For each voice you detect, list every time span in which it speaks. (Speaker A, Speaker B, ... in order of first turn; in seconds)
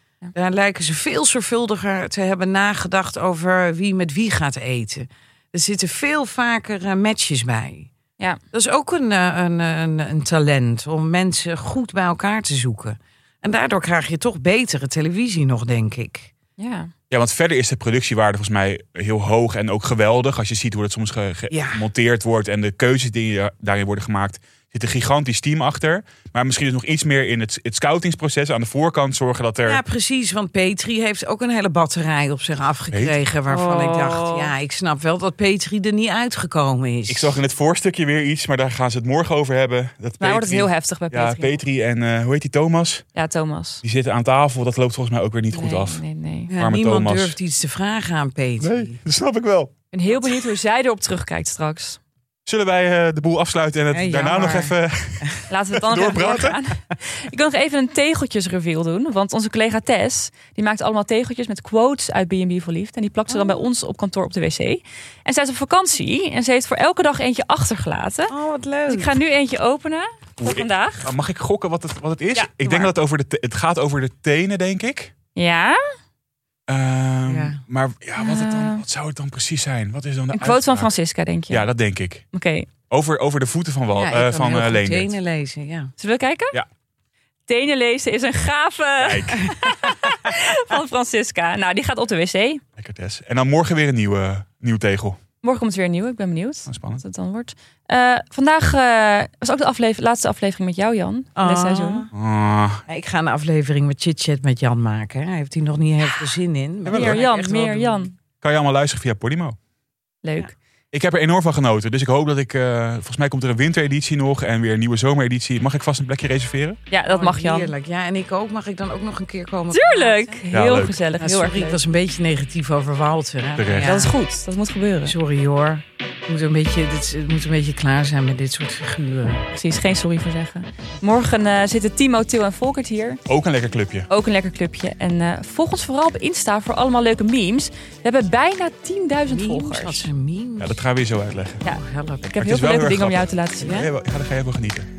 Speaker A: 0.3-7.9, 8.5-16.3, 21.5-21.8, 29.6-37.4, 46.5-49.0, 53.9-55.4, 63.3-63.6, 68.3-69.1, 77.2-77.6, 83.9-85.9, 101.3-102.1, 102.9-108.1, 117.1-120.4, 121.2-124.2, 125.0-129.4, 139.3-140.8, 141.6-142.4, 143.6-143.9
Speaker B: 16.6-16.9, 33.5-34.5, 40.2-41.6, 43.1-43.8, 45.5-46.5, 49.9-52.0, 55.5-68.3, 68.9-71.1, 72.3-72.9, 75.3-75.8, 78.2-78.8, 80.3-81.7, 82.3-82.7, 86.0-86.6, 87.5-92.6, 95.4-102.1, 106.9-108.1, 110.2-110.5, 116.9-117.7, 119.7-121.8, 123.8-125.1, 129.5-133.2, 134.1-140.1, 142.3-143.9
Speaker C: 17.1-29.8, 32.9-33.2, 37.1-43.0, 43.8-46.0, 46.5-47.4, 48.6-49.7, 52.5-56.6, 70.4-75.1, 76.7-80.9, 81.5-82.2, 82.9-85.1, 89.0-89.8, 92.8-95.2, 96.7-97.0, 102.1-102.8, 106.8-107.2, 108.4-109.5, 110.9-116.8, 120.5-121.0, 123.6-124.0, 133.3-134.1, 140.6-141.7, 142.4-144.9